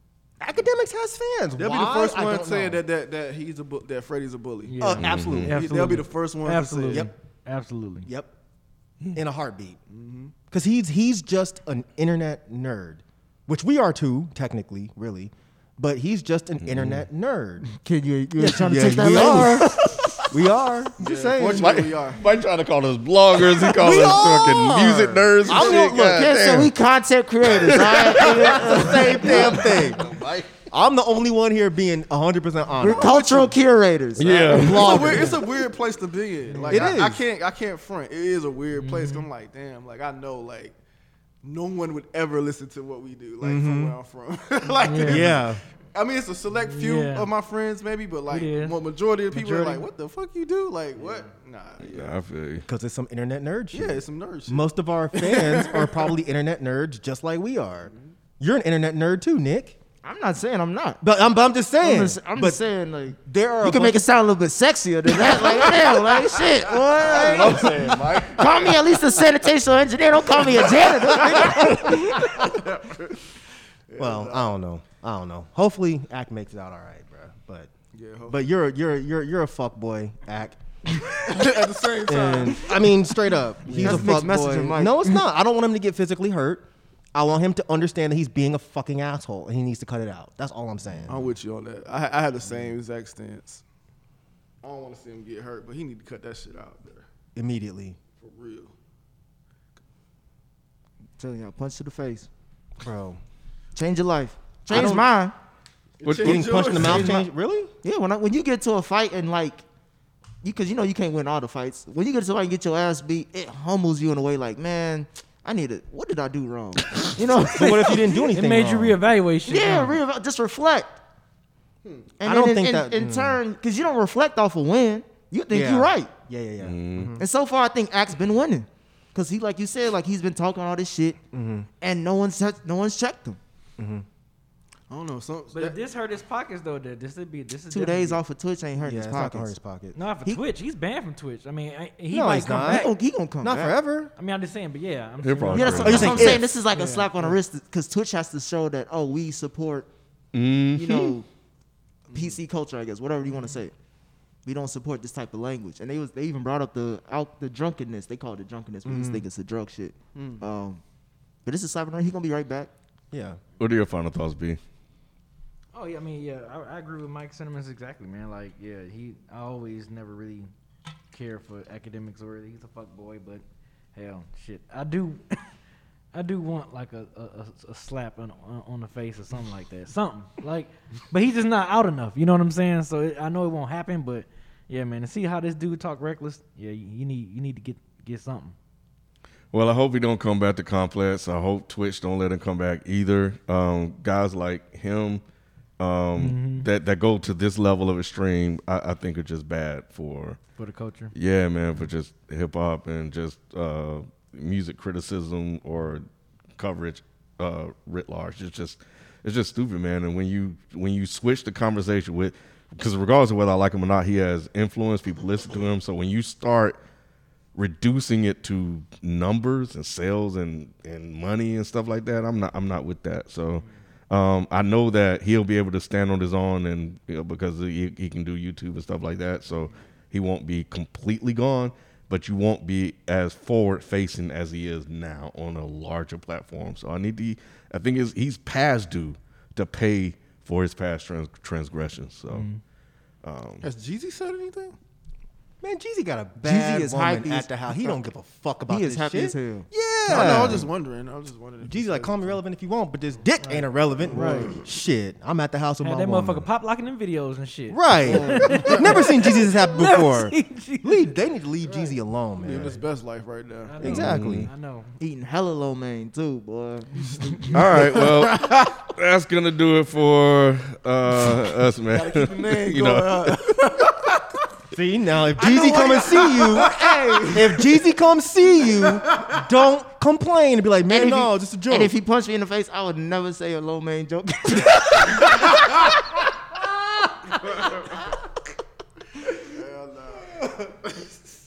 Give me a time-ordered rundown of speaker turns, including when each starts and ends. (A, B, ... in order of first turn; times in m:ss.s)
0:00.4-0:02.8 A
0:01.6-0:04.8 B
0:04.6-0:08.1 C
0:04.8-0:05.6 A
0:05.0-0:05.6 D
0:05.5-0:07.1 B
0:08.0-0:08.3 A
0:09.1-0:09.8 A
0:09.9-0:10.3 B
0:10.5-0:17.7 A
0:16.6-0:17.0 D
0:17.7-0:19.6 E
0:18.4-0:21.3 A
0:19.2-0:20.2 D
0:21.0-0:22.2 B
0:21.0-0:21.7 E
0:21.4-0:26.7 D
0:23.7-0:26.3 A
0:25.4-0:29.8 E
0:27.4-0:30.5 D
0:28.2-0:30.0 A
0:30.7-0:33.5 A
0:32.8-0:34.6 E
0:34.2-0:35.3 D
0:34.4-0:35.4 A
0:34.5-0:40.8 B
0:36.5-0:36.9 C
0:36.7-0:37.2 A
0:38.7-0:39.3 C
0:41.4-0:52.2 B
0:43.4-0:43.9 A
0:44.8-0:45.3 C
0:45.0-0:45.6 A
0:46.7-0:47.3 C
0:48.3-0:48.8 C
0:49.3-0:49.8 C
0:51.8-0:52.6 D
0:52.6-0:59.8 A
0:53.7-0:56.1 B
1:00.0-1:01.0 E
1:01.0-1:04.0 A
1:01.8-1:12.3 E
1:06.9-1:08.9 D
1:07.1-1:08.3 B
1:11.2-1:12.3 A
1:11.2-1:13.2 B
1:13.9-1:14.5 B
1:14.0-1:17.7 A
1:17.9-1:18.4 B
1:18.3-1:20.6 A
1:20.9-1:22.9 B
1:22.0-1:31.3 A
1:23.7-1:24.1 B
1:23.7-1:25.2 E
1:31.1-1:33.6 B
1:34.6-1:37.1 B
1:37.3-1:38.0 A
1:38.1-1:38.7 B
1:41.2-1:42.3 E
1:42.8-1:43.2 A
1:43.8-1:45.3 E
1:44.7-1:45.0 A
1:46.0-1:47.1 B
1:46.0-1:47.1 D
1:46.2-1:47.7 A
1:46.8-1:47.3 E
1:47.8-1:49.6 E
1:50.4-1:58.2 E
1:57.4-1:59.0 A
1:58.3-2:00.0 C
1:59.5-2:00.9 E
2:01.8-2:02.1 B
2:02.2-2:06.1 E
2:02.2-2:03.4 A
2:05.5-2:07.2 A
2:06.6-2:07.1 D
2:07.2-2:11.2 E
2:11.3-2:11.7 A
2:11.8-2:13.4 E
2:13.8-2:14.0 A
2:14.9-2:15.8 B
2:15.5-2:18.2 C
2:17.7-2:19.5 E
2:18.8-2:20.0 A
2:19.9-2:22.9 C
2:22.1-2:22.9 A
2:22.6-2:23.7 E
2:23.4-2:24.1 A
2:24.2-2:27.3 C
2:25.2-2:26.4 D
2:25.5-2:29.9 E
2:25.8-2:26.4 A
2:30.3-2:31.1 D
2:30.7-2:31.3 E
2:32.1-2:32.4 B
2:32.1-2:33.7 E
2:34.4-2:40.8 E
2:38.8-2:39.2 A
2:40.1-2:40.4 B
2:41.4-2:42.7 E
2:43.1-2:43.4 A
2:43.6-2:44.6 D
2:45.7-2:50.5 C
2:51.1-2:53.4 C
2:53.9-2:55.4 C
2:56.1-3:08.5 C
3:09.5-3:15.2 D
3:15.8-3:20.4 D
3:16.2-3:16.7 C
3:20.6-3:21.1 C
3:21.1-3:36.8 D
3:37.5-4:02.5 D
4:02.3-4:02.6 C
4:03.2-4:03.6 D
4:03.6-4:04.8 B
4:05.6-4:10.7 A
4:06.4-4:08.0 E
4:08.7-4:09.7 E
4:10.0-4:12.4 B
4:11.6-4:16.5 A
4:13.4-4:14.5 C
4:14.0-4:14.6 B
4:15.8-4:21.1 C
4:17.7-4:22.8 A
4:18.2-4:19.0 B
4:21.6-4:23.9 B
4:23.6-4:24.9 C
4:23.8-4:24.5 A
4:23.8-4:24.5 D
4:25.0-4:26.9 E
4:27.0-4:28.8 B
4:27.5-4:33.9 D
4:31.9-4:34.0 B
4:34.7-4:36.7 A
4:35.4-4:37.6 B
4:37.2-4:41.9 A
4:39.1-4:39.4 B
4:40.9-4:45.9 E
4:49.2-4:51.1 B